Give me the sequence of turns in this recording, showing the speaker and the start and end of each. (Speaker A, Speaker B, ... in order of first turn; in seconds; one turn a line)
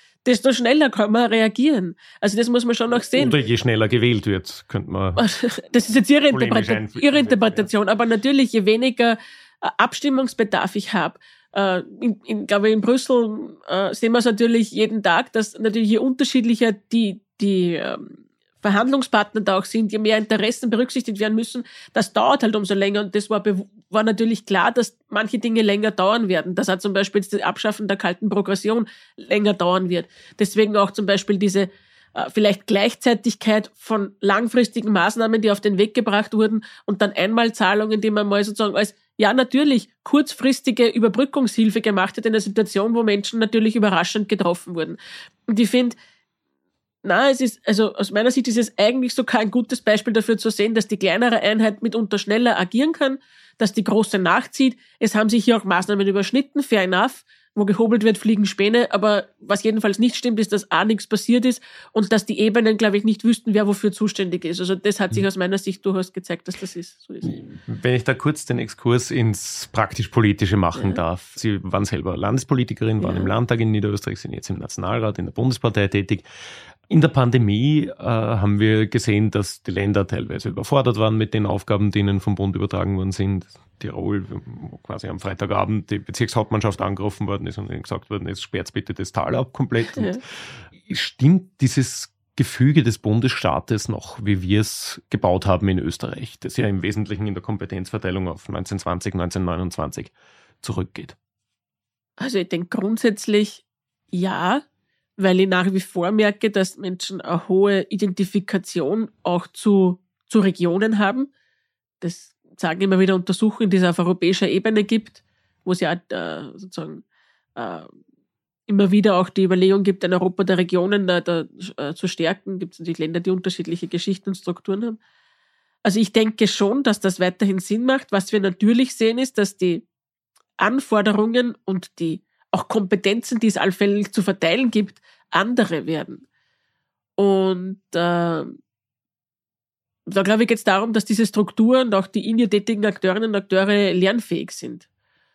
Speaker A: 0.2-3.3
Speaker B: 3.1-5.2
Speaker A: 5.2-46.0
Speaker B: 6.3-7.7
Speaker A: 47.0-67.4
Speaker B: 67.2-76.2
Speaker A: 73.0-73.3
Speaker B: 76.9-90.1
Speaker A: 89.9-90.2
Speaker B: 90.8-101.2
Speaker A: 102.2-104.6
Speaker A: 105.2-111.3
Speaker A: 112.0-117.0
Speaker A: 117.5-117.9
Speaker A: 118.7-125.0
Speaker A: 125.8-129.8
Speaker A: 130.6-136.2
Speaker A: 137.2-138.6
Speaker A: 140.1-144.8